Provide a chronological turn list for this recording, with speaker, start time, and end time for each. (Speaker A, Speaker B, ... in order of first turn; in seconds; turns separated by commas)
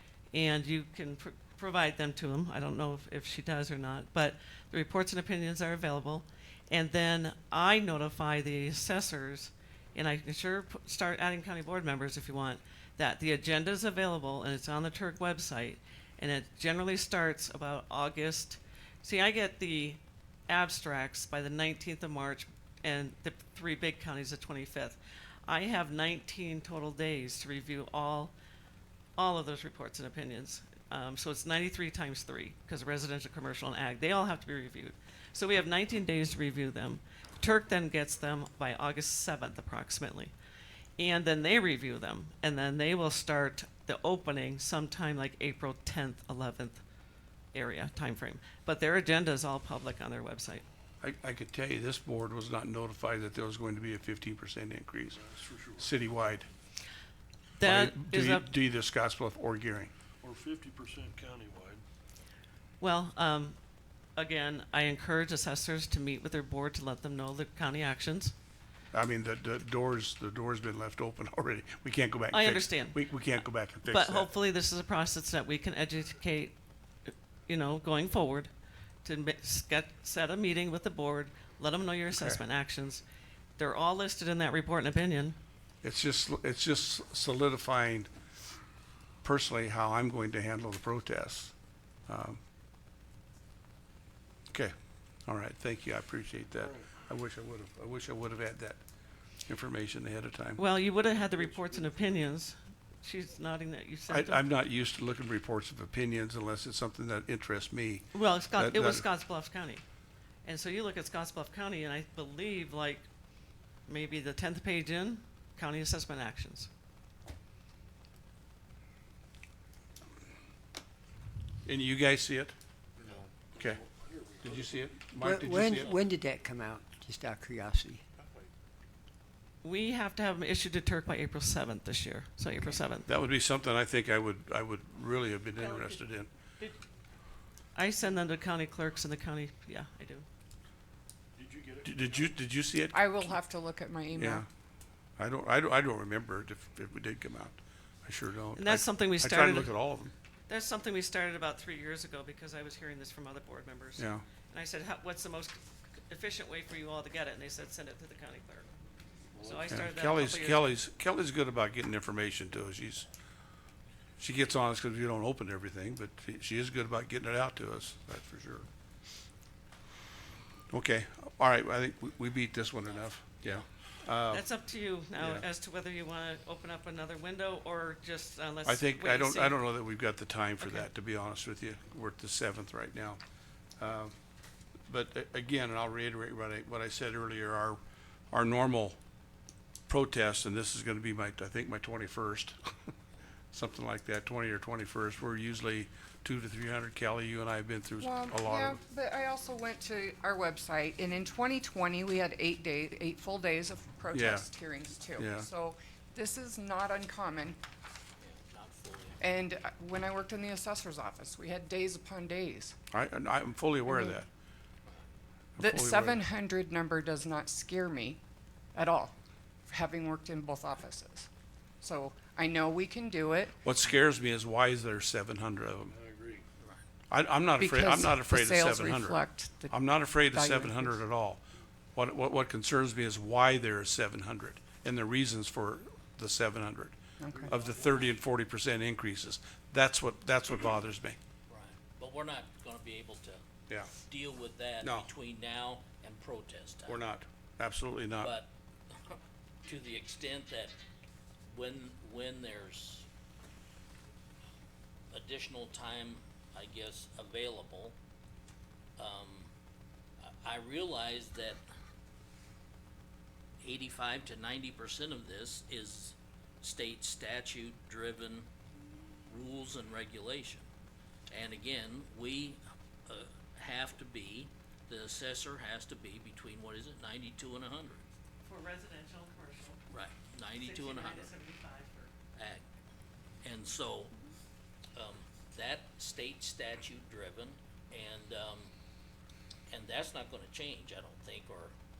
Speaker A: 0.3-28.3, Speaker A: 29.2-40.3, Speaker A: 41.0-46.8, Speaker A: 47.5-50.6, Speaker B: 51.0-55.2, Speaker C: 55.1-56.1, Speaker B: 55.8-56.5, Speaker A: 57.6-58.5, Speaker B: 57.6-59.9, Speaker C: 60.2-61.8, Speaker A: 62.8-63.6, Speaker A: 64.2-68.3, Speaker B: 68.9-74.3, Speaker A: 72.3-73.0, Speaker A: 73.9-76.5, Speaker A: 77.1-78.5, Speaker A: 79.0-83.0, Speaker B: 82.1-82.4, Speaker A: 83.6-85.4, Speaker B: 85.8-88.1, Speaker B: 89.2-91.5, Speaker B: 92.1-92.4, Speaker B: 95.3-98.8, Speaker B: 99.5-100.6, Speaker A: 100.6-104.4, Speaker C: 101.0-101.9, Speaker B: 104.1-109.0, Speaker A: 108.1-109.8, Speaker A: 110.4-113.0, Speaker A: 113.9-116.7, Speaker B: 121.6-122.5, Speaker C: 123.0-124.8, Speaker B: 123.5-123.8, Speaker B: 124.4-126.0, Speaker D: 125.2-128.0, Speaker A: 129.6-133.1, Speaker B: 133.1-136.3, Speaker A: 135.6-136.0, Speaker A: 137.7-140.3, Speaker C: 141.3-142.3, Speaker B: 141.8-143.4, Speaker E: 142.9-144.4, Speaker B: 144.1-144.5, Speaker B: 145.2-150.1, Speaker A: 148.6-149.7, Speaker A: 150.5-158.7, Speaker B: 154.0-154.2, Speaker C: 159.3-159.8, Speaker A: 159.4-160.7, Speaker B: 159.7-163.1, Speaker B: 164.2-168.7, Speaker B: 170.7-174.5, Speaker F: 172.8-173.7, Speaker A: 174.3-179.6, Speaker B: 175.2-175.4, Speaker B: 178.6-183.2, Speaker B: 183.8-184.1, Speaker B: 184.9-187.8, Speaker B: 188.3-189.0, Speaker B: 189.9-192.6, Speaker B: 193.5-198.8, Speaker E: 198.0-207.6, Speaker B: 204.1-204.5, Speaker B: 205.2-205.5, Speaker F: 208.2-209.2, Speaker E: 209.2-212.7, Speaker B: 212.9-214.3, Speaker E: 213.8-214.1, Speaker B: 215.6-216.2, Speaker E: 215.6-218.2, Speaker E: 218.7-219.1, Speaker E: 219.7-221.3, Speaker E: 221.8-223.6, Speaker B: 223.6-225.9, Speaker C: 225.9-226.4, Speaker B: 227.1-231.4, Speaker E: 227.6-231.0, Speaker B: 231.9-241.2, Speaker E: 237.2-237.5, Speaker C: 237.3-237.9, Speaker F: 241.5-243.4, Speaker F: 244.0-247.0, Speaker B: 244.8-245.1, Speaker B: 246.8-248.3, Speaker F: 248.2-250.8, Speaker F: 251.4-253.1, Speaker F: 255.1-257.9, Speaker F: 259.0-259.5, Speaker F: 260.2-261.6, Speaker F: 263.6-268.5, Speaker F: 269.3-270.7, Speaker F: 271.3-278.0, Speaker A: 278.4-279.8, Speaker F: 279.9-281.3, Speaker A: 280.5-282.1, Speaker F: 282.3-282.6, Speaker F: 283.4-284.1, Speaker F: 284.9-288.7, Speaker F: 289.7-291.7